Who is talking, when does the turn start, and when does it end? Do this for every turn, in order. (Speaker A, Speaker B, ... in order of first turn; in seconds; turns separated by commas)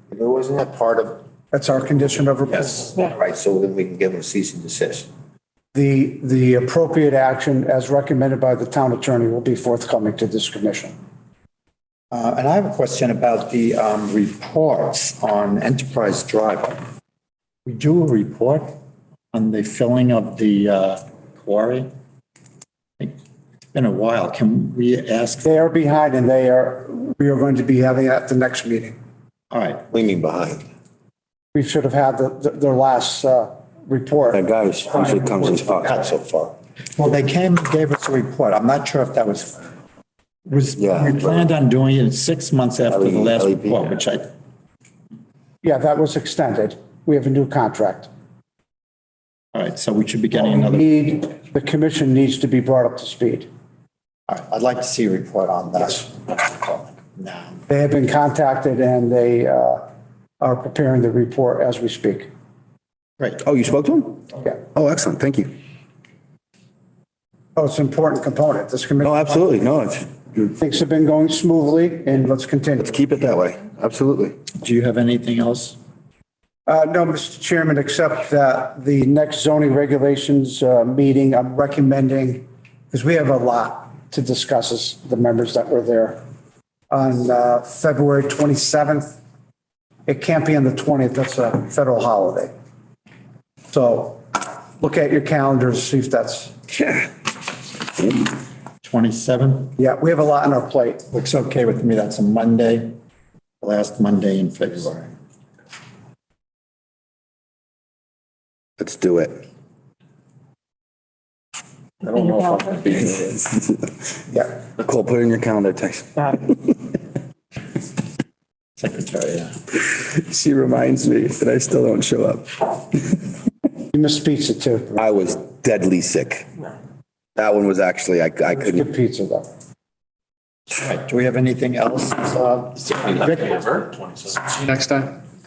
Speaker A: 0.2-0.9, Speaker B: 0.2-1.0, Speaker C: 1.5-2.9, Speaker A: 3.0-5.0, Speaker C: 5.7-10.9, Speaker D: 12.1-16.8, Speaker D: 17.7-18.7, Speaker D: 19.3-21.9, Speaker D: 23.7-25.6, Speaker C: 25.4-29.0, Speaker D: 29.5-29.9, Speaker B: 30.0-30.6, Speaker C: 31.5-35.9, Speaker B: 34.3-36.5, Speaker D: 37.0-39.6, Speaker D: 40.5-44.3, Speaker B: 40.8-41.3, Speaker B: 42.9-43.9, Speaker C: 45.6-48.1, Speaker D: 49.5-50.9, Speaker C: 50.3-53.5, Speaker D: 54.3-57.6, Speaker C: 57.7-59.8, Speaker C: 60.4-62.3, Speaker B: 63.4-65.5, Speaker C: 67.6-69.7, Speaker B: 69.0-70.5, Speaker C: 70.6-73.0, Speaker B: 72.8-74.3, Speaker D: 74.6-75.8, Speaker C: 76.7-86.2, Speaker C: 86.9-89.2, Speaker C: 90.1-92.5, Speaker C: 93.7-94.2, Speaker C: 94.8-96.5, Speaker B: 96.7-97.1, Speaker D: 98.8-99.8, Speaker C: 99.8-101.0, Speaker D: 101.1-103.0, Speaker D: 103.6-105.1, Speaker B: 108.8-109.4, Speaker E: 112.0-113.1, Speaker B: 113.0-113.9, Speaker B: 114.8-116.5, Speaker D: 118.8-119.6, Speaker B: 119.8-122.8, Speaker C: 123.9-125.0, Speaker B: 125.0-126.5, Speaker B: 127.4-128.9, Speaker C: 128.5-129.5, Speaker D: 130.7-133.4, Speaker E: 133.0-134.7, Speaker C: 134.8-135.1